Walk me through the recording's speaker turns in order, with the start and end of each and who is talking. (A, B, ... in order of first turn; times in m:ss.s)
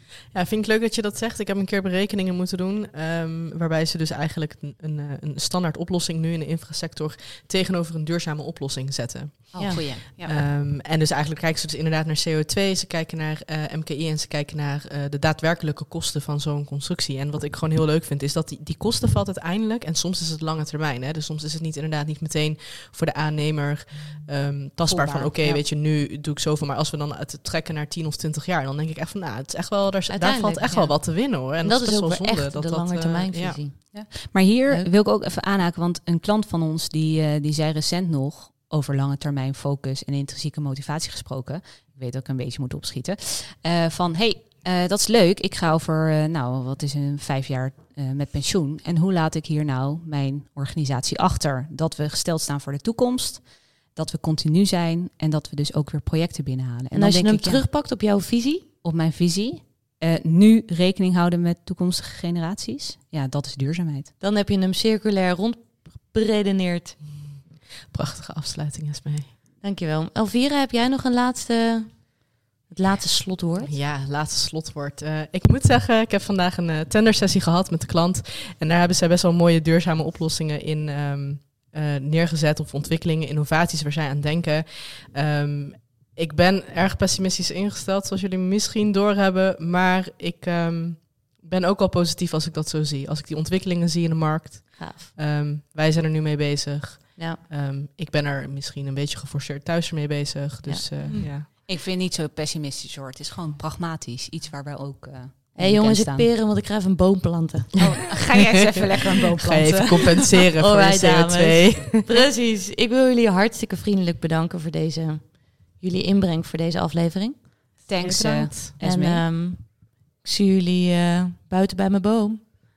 0:00.3-0:33.6 A
0:09.5-0:10.4 B
0:09.6-0:09.8 C
0:24.8-0:25.6 B
0:30.1-0:30.8 C
0:30.6-0:30.9 B
0:31.6-0:34.1 C
0:33.9-0:57.7 B
0:56.9-0:58.6 C
0:58.8-1:04.1 B
1:04.2-1:07.0 C
1:07.9-1:09.3 A
1:09.6-1:13.7 C
1:13.6-1:41.5 A
1:34.8-1:35.1 C
1:40.6-1:41.3 C
1:41.6-1:46.3 B
1:45.6-1:47.9 C
1:47.8-1:50.3 B
1:49.4-1:52.1 A
1:50.6-1:57.4 C
1:57.9-1:59.2 B
1:58.0-1:58.7 A
1:58.8-2:02.4 C